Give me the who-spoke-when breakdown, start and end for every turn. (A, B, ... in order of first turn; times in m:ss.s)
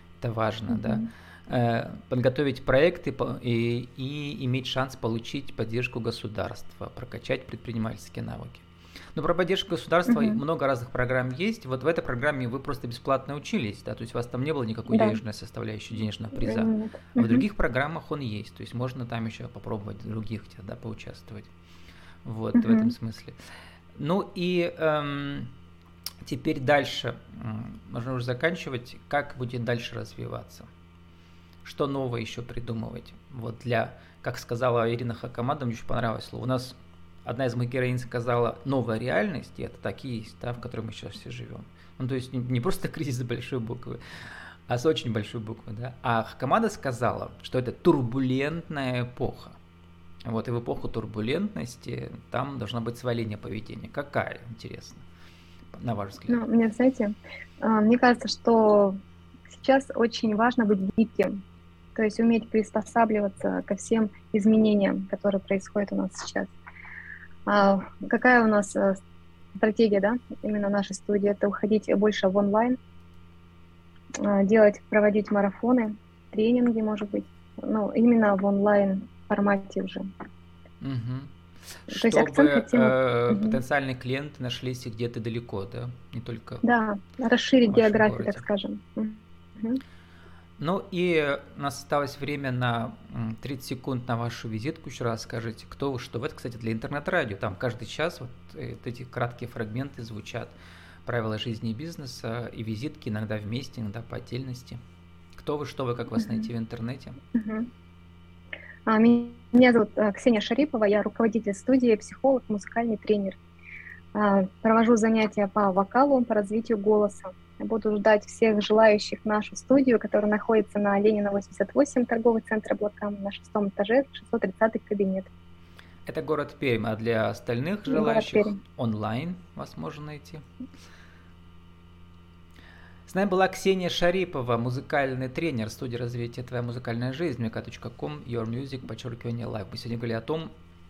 0:00.2-0:08.6 A
0:00.7-0:01.0 B
0:09.1-0:21.5 A
0:10.1-0:10.4 B
0:14.9-0:15.2 B
0:16.4-0:17.4 B
0:22.2-0:23.3 A
0:22.5-0:22.9 B
0:23.9-0:25.5 A
0:26.2-0:30.7 A
0:31.6-0:44.0 A
0:44.7-0:49.6 A
0:50.2-0:55.0 A
0:55.7-0:56.4 A
0:56.3-0:59.0 B
0:59.5-1:01.4 B
1:01.9-1:06.5 B
1:07.4-1:09.0 B
1:09.6-1:12.8 B
1:14.2-1:20.1 B
1:20.8-1:21.3 A
1:21.9-1:26.6 A
1:21.9-1:23.6 B
1:26.6-1:29.8 B
1:27.6-1:28.4 A
1:30.6-1:40.5 A
1:41.0-1:44.8 A
1:45.3-1:47.2 A
1:46.2-1:46.5 B
1:47.3-1:47.7 B
1:48.9-1:53.4 B
1:54.1-2:05.3 B
2:06.0-2:10.4 A
2:07.9-2:08.6 B
2:13.1-2:20.5 A